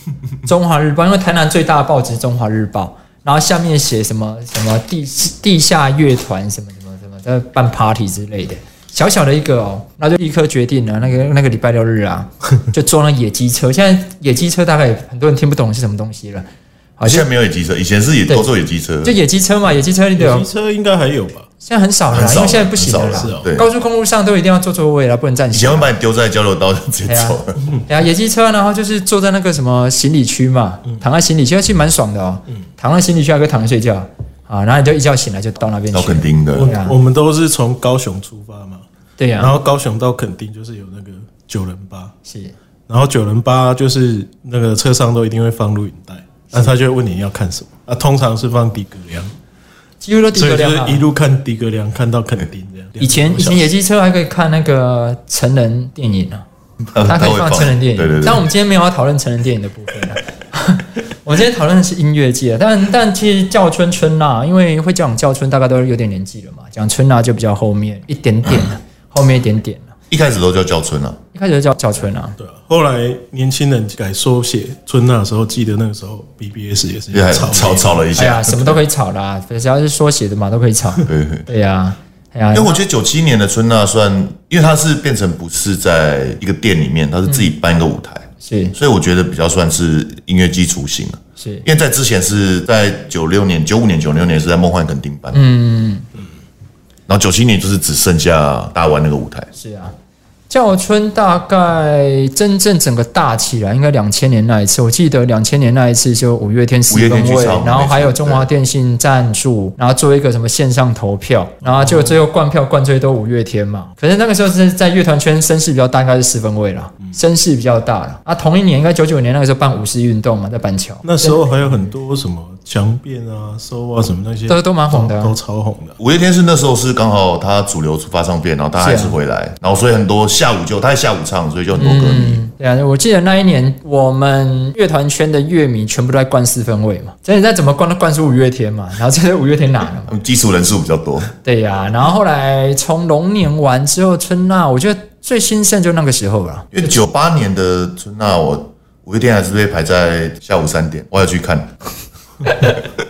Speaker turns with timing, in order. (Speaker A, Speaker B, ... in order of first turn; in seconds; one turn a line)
Speaker A: 0.5-16.4
Speaker A: 17.0-17.2
Speaker B: 17.0-19.1
Speaker A: 19.0-20.4
Speaker C: 20.1-21.5
Speaker A: 21.6-25.9
Speaker B: 22.1-23.7
Speaker C: 22.2-23.5
Speaker B: 25.5-27.6
Speaker A: 27.1-36.9
Speaker B: 35.9-36.7
Speaker C: 36.5-38.9
Speaker A: 39.2-39.5
Speaker C: 39.4-42.1
Speaker A: 42.2-42.5
Speaker C: 42.9-49.3
Speaker A: 50.0-51.0
Speaker C: 50.3-53.7
Speaker A: 53.0-56.4
Speaker B: 56.9-58.5
Speaker A: 57.1-69.9
Speaker B: 70.1-71.2
Speaker A: 71.3-72.4
Speaker C: 72.4-78.0
Speaker B: 77.1-78.8
Speaker A: 78.2-82.8
Speaker B: 81.0-81.5
Speaker B: 82.5-95.4
Speaker A: 88.4-88.8
Speaker A: 91.4-91.6
Speaker A: 95.3-96.1
Speaker B: 97.1-99.5
Speaker A: 99.5-99.9
Speaker A: 100.5-121.5
Speaker B: 106.9-108.5
Speaker C: 111.7-112.2
Speaker C: 121.0-126.0
Speaker A: 124.5-125.3
Speaker B: 126.0-132.4
Speaker A: 128.8-129.2
Speaker A: 131.7-140.1
Speaker B: 140.1-141.3
Speaker A: 141.4-146.7
Speaker B: 146.7-151.7
Speaker A: 152.4-152.8